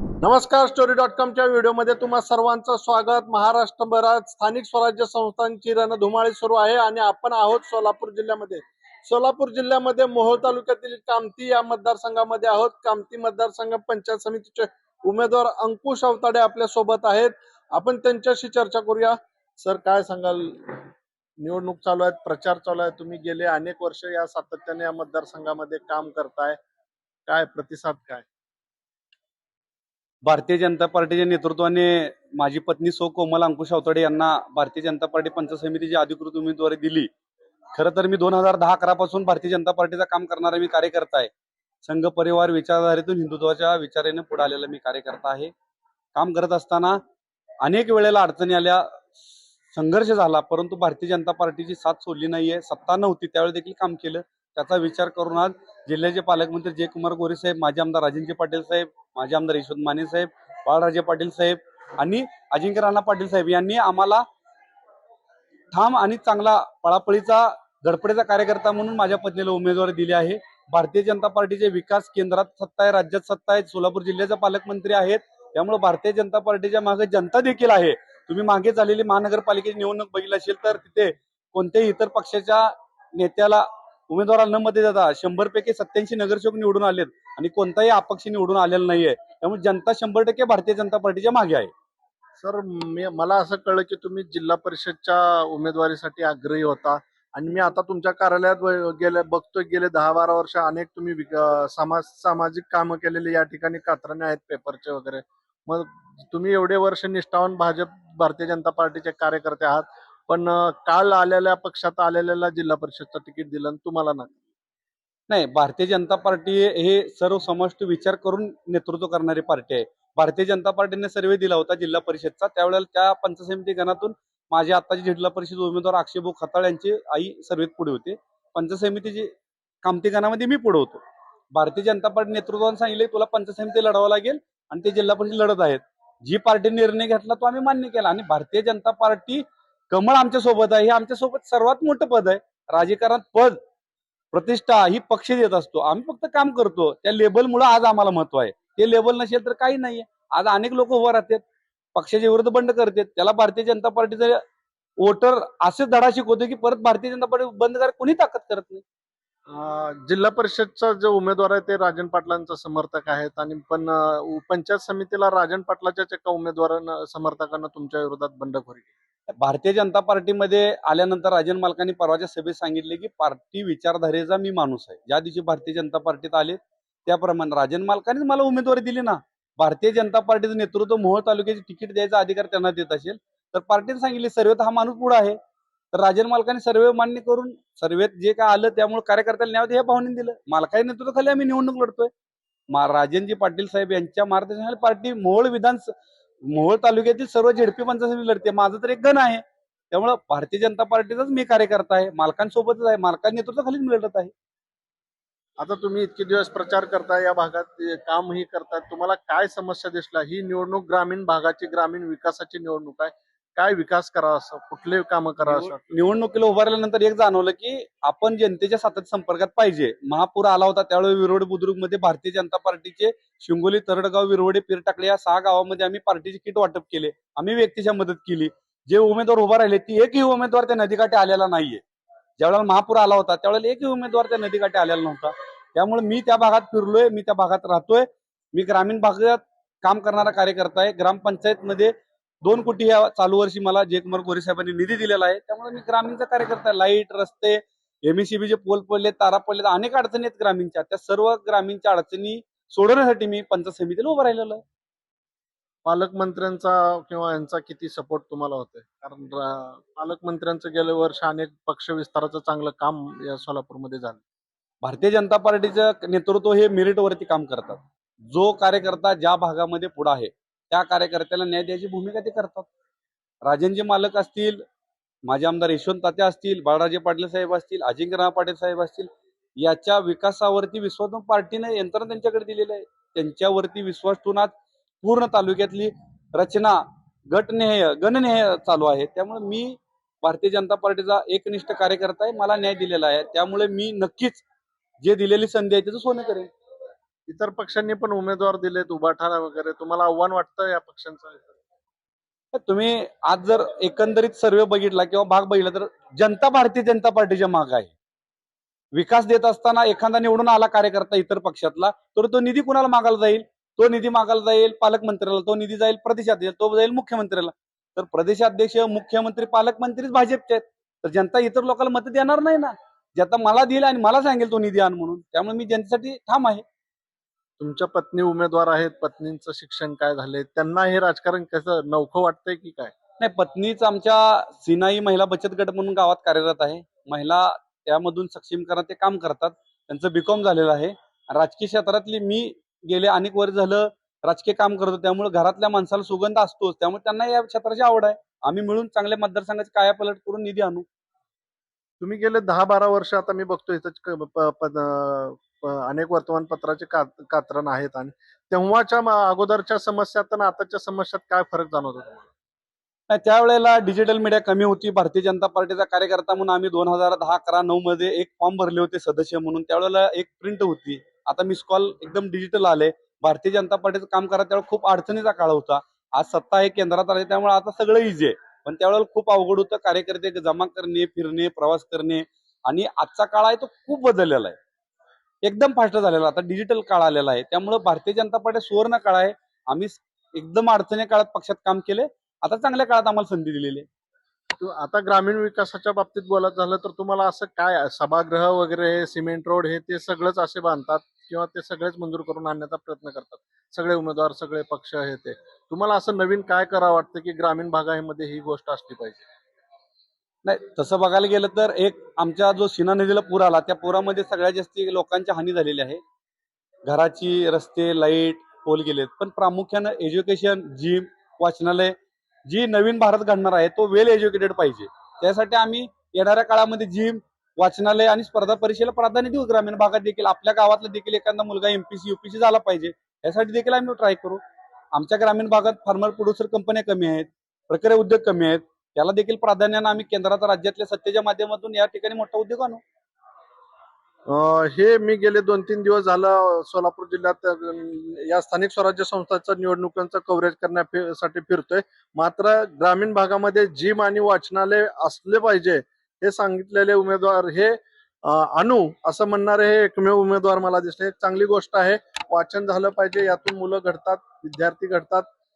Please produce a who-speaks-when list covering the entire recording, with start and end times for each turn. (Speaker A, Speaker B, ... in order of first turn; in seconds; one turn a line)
Speaker A: 0.2-20.8
Speaker A: 21.4-26.6
Speaker A: 27.3-28.2
Speaker B: 30.2-37.1
Speaker B: 37.7-41.3
Speaker B: 41.8-45.5
Speaker B: 46.1-47.0
Speaker B: 47.6-49.0
Speaker B: 49.7-64.2
Speaker B: 65.7-91.7
Speaker A: 92.4-114.4
Speaker B: 115.3-129.3
Speaker B: 129.8-131.0
Speaker B: 131.5-143.6
Speaker B: 144.3-151.4
Speaker B: 151.9-154.4
Speaker B: 155.0-158.8
Speaker A: 159.5-168.9
Speaker B: 169.3-185.4
Speaker B: 185.9-192.1
Speaker B: 192.7-195.9
Speaker B: 196.5-204.3
Speaker A: 205.6-215.8
Speaker B: 215.4-231.8
Speaker B: 232.4-254.6
Speaker A: 255.8-264.2
Speaker B: 264.8-272.7
Speaker B: 273.4-274.6
Speaker B: 275.3-294.4
Speaker B: 295.0-296.5
Speaker A: 297.3-301.6
Speaker B: 302.5-307.9
Speaker B: 308.9-326.6
Speaker A: 327.6-332.9
Speaker B: 333.2-350.9
Speaker A: 352.0-362.3
Speaker B: 363.1-384.6
Speaker B: 385.4-393.9
Speaker A: 394.6-409.2
Speaker B: 410.4-416.0
Speaker B: 416.9-422.0
Speaker B: 422.5-434.4
Speaker B: 434.9-442.8
Speaker A: 444.3-465.3